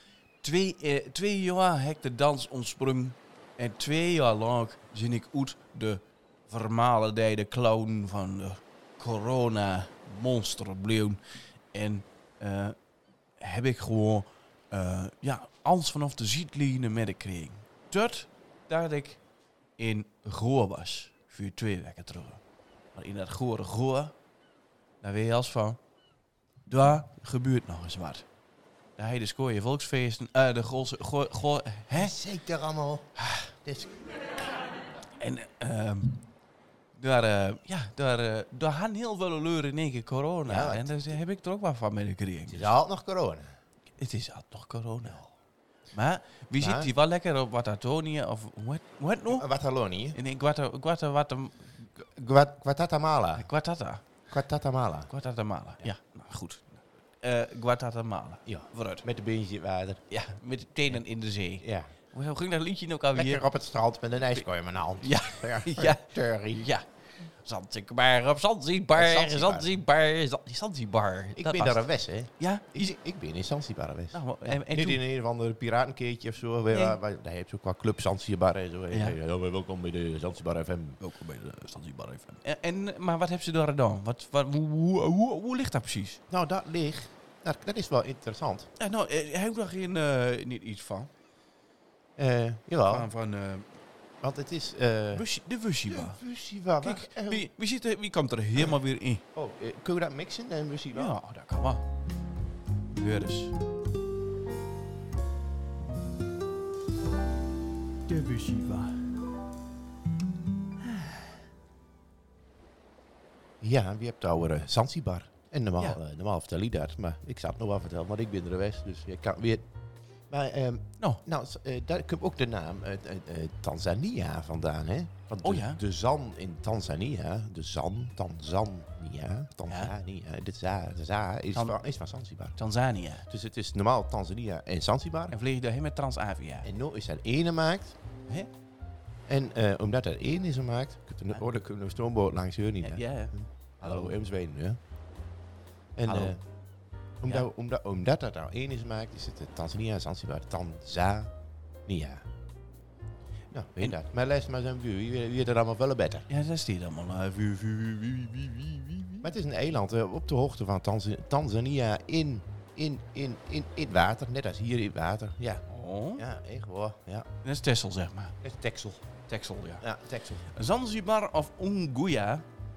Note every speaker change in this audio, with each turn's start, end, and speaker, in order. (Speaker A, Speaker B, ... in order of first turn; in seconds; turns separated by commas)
Speaker A: 0.4-11.2, Speaker A: 11.7-12.8, Speaker A: 13.4-19.2, Speaker A: 19.8-22.4, Speaker A: 22.9-24.1, Speaker A: 25.0-25.8, Speaker A: 26.7-28.2, Speaker A: 29.0-32.1, Speaker B: 31.9-33.9, Speaker A: 33.2-33.5, Speaker A: 35.2-36.3, Speaker A: 36.9-42.7, Speaker B: 40.5-40.9, Speaker B: 42.5-43.6, Speaker A: 44.0-45.2, Speaker B: 45.0-45.3, Speaker A: 45.9-49.5, Speaker B: 46.6-46.9, Speaker B: 49.3-50.2, Speaker A: 50.1-51.8, Speaker B: 52.0-53.5, Speaker A: 53.4-54.0, Speaker B: 54.3-55.1, Speaker A: 55.1-59.0, Speaker B: 58.5-60.0, Speaker A: 60.1-63.4, Speaker B: 61.6-61.9, Speaker B: 63.1-66.7, Speaker A: 65.0-71.8, Speaker B: 68.9-69.7, Speaker B: 71.3-81.0, Speaker A: 72.4-73.0, Speaker A: 74.1-75.0, Speaker A: 76.7-77.0, Speaker A: 78.9-79.2, Speaker A: 81.0-86.2, Speaker B: 86.3-88.7, Speaker A: 88.8-91.1, Speaker B: 92.2-93.1, Speaker A: 92.9-93.7, Speaker B: 94.2-95.3, Speaker A: 95.1-96.2, Speaker B: 95.8-97.5, Speaker A: 96.8-99.2, Speaker B: 99.3-101.2, Speaker A: 100.9-101.8, Speaker A: 102.9-103.5, Speaker A: 108.1-109.1, Speaker B: 113.6-119.7, Speaker B: 120.3-132.6, Speaker A: 125.4-125.8, Speaker A: 129.7-129.9, Speaker A: 132.6-133.3, Speaker B: 133.3-135.3, Speaker A: 135.3-136.7, Speaker B: 136.6-137.9, Speaker B: 139.3-144.8, Speaker A: 142.8-144.2, Speaker B: 145.9-146.4, Speaker A: 146.1-146.3, Speaker B: 147.2-151.3, Speaker B: 151.8-152.2, Speaker B: 153.5-156.2, Speaker A: 156.3-159.3, Speaker B: 159.2-167.3, Speaker A: 165.7-166.2, Speaker A: 167.4-168.4, Speaker B: 168.4-169.1, Speaker A: 169.3-169.9, Speaker B: 169.8-170.5, Speaker A: 170.5-172.5